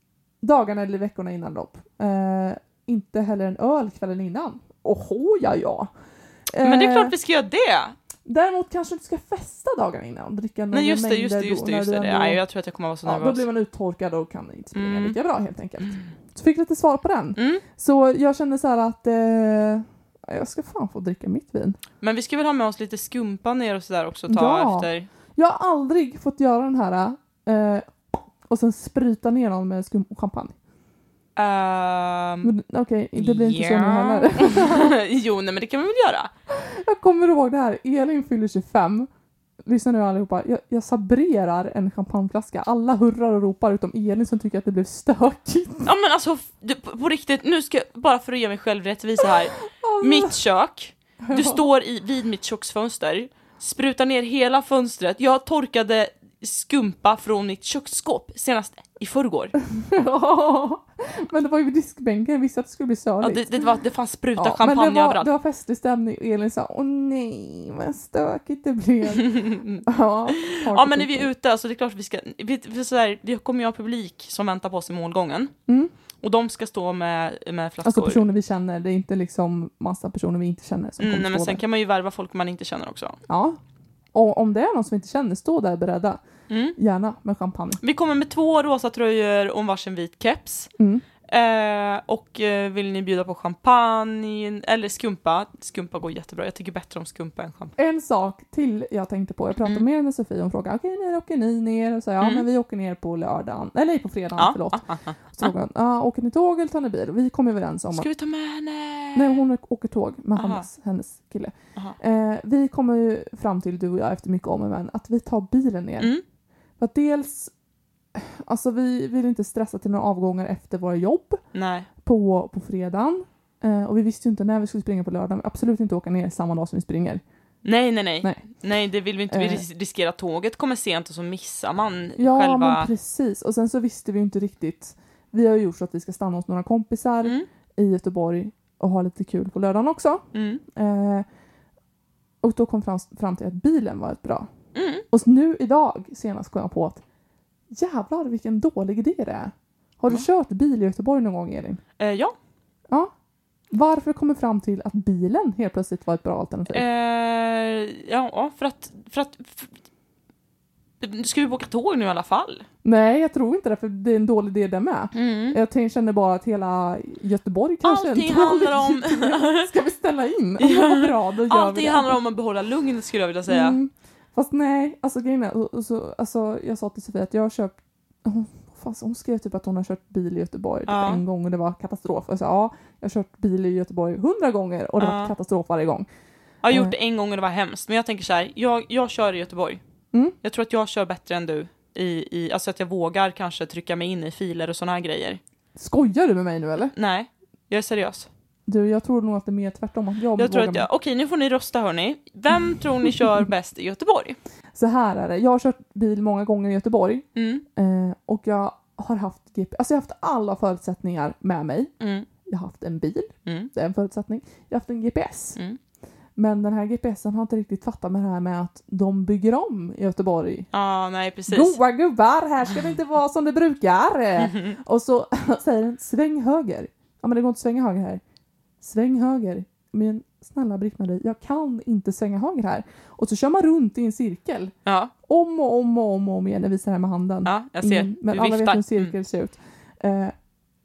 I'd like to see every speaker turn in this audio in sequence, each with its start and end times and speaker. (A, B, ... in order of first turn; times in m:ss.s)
0:00.4-0:05.9 A
0:06.5-0:07.1 A
0:06.6-0:07.9 B
0:08.2-0:12.4 A
0:10.7-0:13.4 B
0:13.0-0:21.8 A
0:14.7-0:15.2 B
0:17.4-0:17.6 B
0:22.0-0:25.1 B
0:24.3-0:27.9 A
0:28.5-0:30.5 A
0:31.4-0:32.5 B
0:32.4-0:35.0 A
0:33.2-0:36.3 B
0:36.5-0:39.1 A
0:39.6-0:45.9 A
0:45.8-0:59.5 B
0:49.8-0:50.4 A
0:51.2-0:51.6 A
0:59.6-1:03.6 A
1:03.2-1:05.3 B
1:04.4-1:11.3 A
1:09.1-1:15.5 B
1:15.7-1:15.9 A
1:16.2-1:18.2 B
1:17.8-1:21.6 A
1:21.0-1:23.2 B
1:23.3-1:23.6 A
1:24.1-1:26.2 A
1:26.5-1:26.8 B
1:26.8-1:27.8 A
1:27.8-1:30.7 B
1:30.8-1:31.0 A
1:31.3-1:37.7 B
1:37.8-1:48.1 A
1:42.2-1:42.4 B
1:44.4-1:45.5 B
1:47.9-1:49.4 B
1:49.1-1:56.1 A
1:50.4-1:50.7 B
1:56.8-1:57.5 A
1:58.1-2:01.4 A
2:01.5-2:01.9 B
2:02.0-2:07.2 A
2:07.6-2:12.9 B
2:09.3-2:09.6 A
2:12.2-2:21.2 A
2:20.3-2:20.6 B
2:22.4-2:24.5 A
2:24.7-2:25.0 B
2:25.1-2:27.0 A
2:27.7-2:31.8 A
2:32.0-2:32.3 B
2:33.7-2:36.8 A
2:36.7-2:39.7 B
2:41.0-2:42.6 B
2:42.8-2:52.2 A
2:45.1-2:45.6 B
2:47.8-2:49.7 B
2:50.6-2:53.8 B
2:53.5-3:06.1 A
3:00.9-3:01.2 B
3:05.0-3:05.3 B
3:06.6-3:09.8 B
3:06.7-3:06.9 A
3:10.4-3:15.4 B
3:15.8-3:16.9 A
3:16.9-3:18.3 B
3:18.7-3:20.9 A
3:20.4-3:24.4 B
3:24.7-3:31.9 A
3:27.4-3:27.6 B
3:32.0-3:32.3 B
3:32.4-3:35.6 A
3:33.4-3:33.7 B
3:36.4-3:40.7 A
3:40.7-3:41.8 B
3:41.5-3:48.2 A
3:44.4-3:44.8 B
3:48.8-3:54.7 A
3:54.8-3:55.1 B
3:55.2-4:00.3 A
3:57.4-3:59.1 B